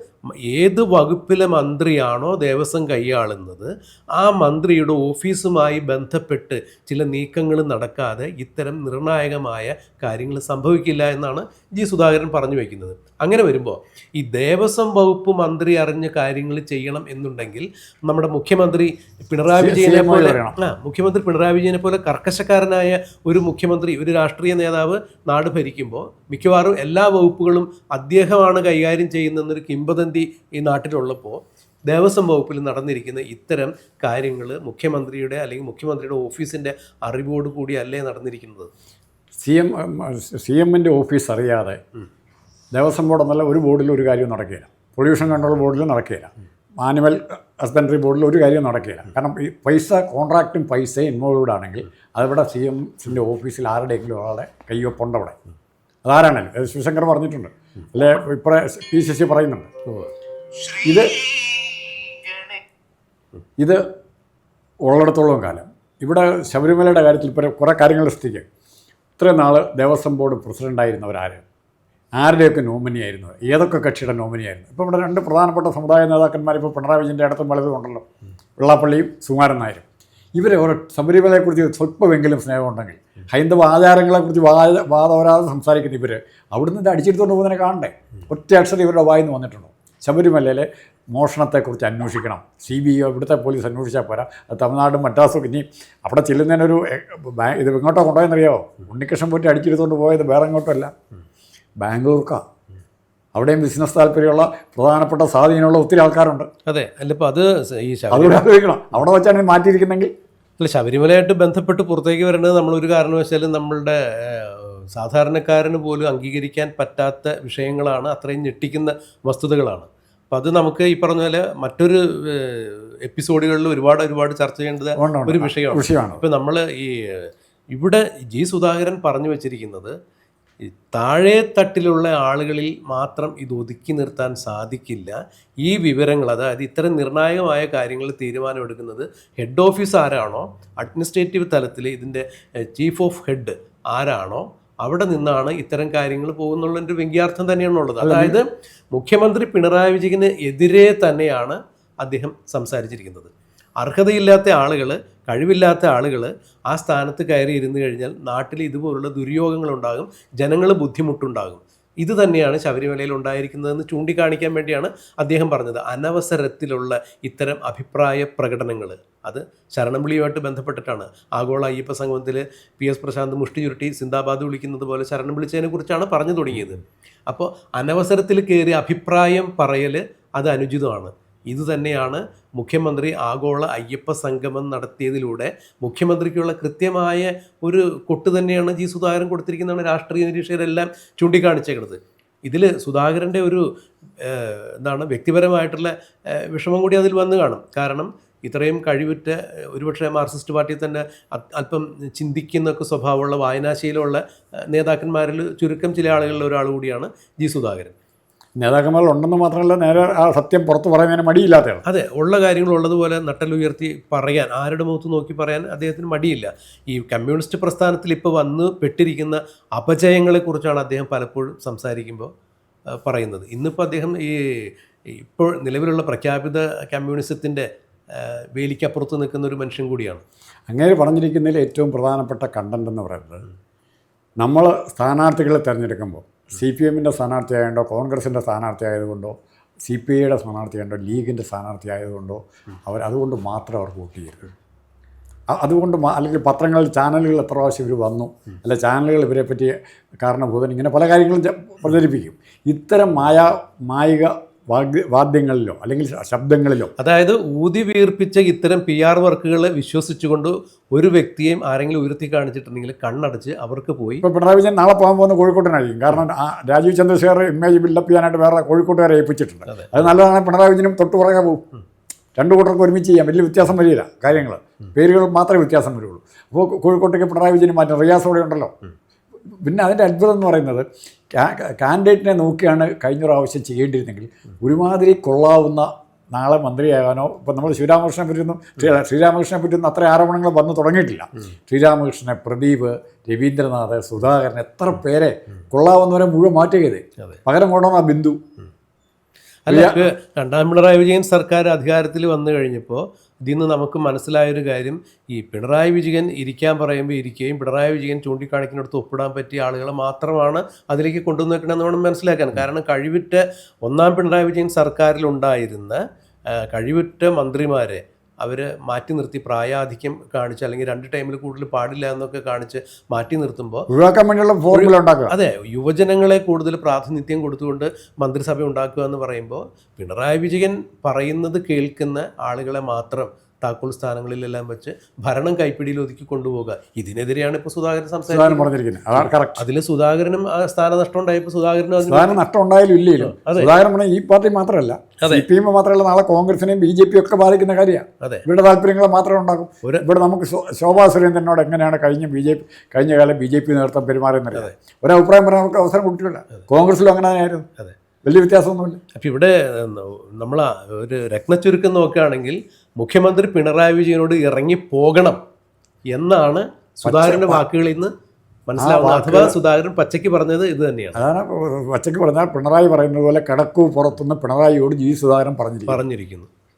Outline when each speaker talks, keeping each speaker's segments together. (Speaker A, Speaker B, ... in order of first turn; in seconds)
Speaker A: 0.4-38.7, 106.7-108.5, 110.6-129.9, 130.9-193.7, 194.2-207.9, 211.8-222.3, 222.9-230.2, 257.0-264.2, 269.7-270.1, 299.6-316.0, 316.5-323.9, 324.7-342.4, 343.2-343.7, 345.2-345.4, 359.1-365.4, 366.1-368.1, 368.7-371.2, 375.9-376.5
Speaker B: 19.6-20.6, 39.4-41.8, 42.7-55.4, 56.0-59.7, 60.7-61.3, 64.8-68.5, 69.2-71.4, 72.2-78.0, 78.6-100.9, 101.8-102.4, 103.3-106.5, 108.1-110.1, 125.0-126.2, 148.0-148.4, 208.6-211.8, 230.7-233.4, 234.4-239.3, 239.9-244.5, 245.5-256.9, 264.2-271.6, 272.4-278.7, 279.6-298.4, 299.7-300.1, 323.9-325.3, 338.3-339.6, 342.0-357.6, 358.2-359.0, 367.0-367.6, 368.8-369.6, 371.1-376.0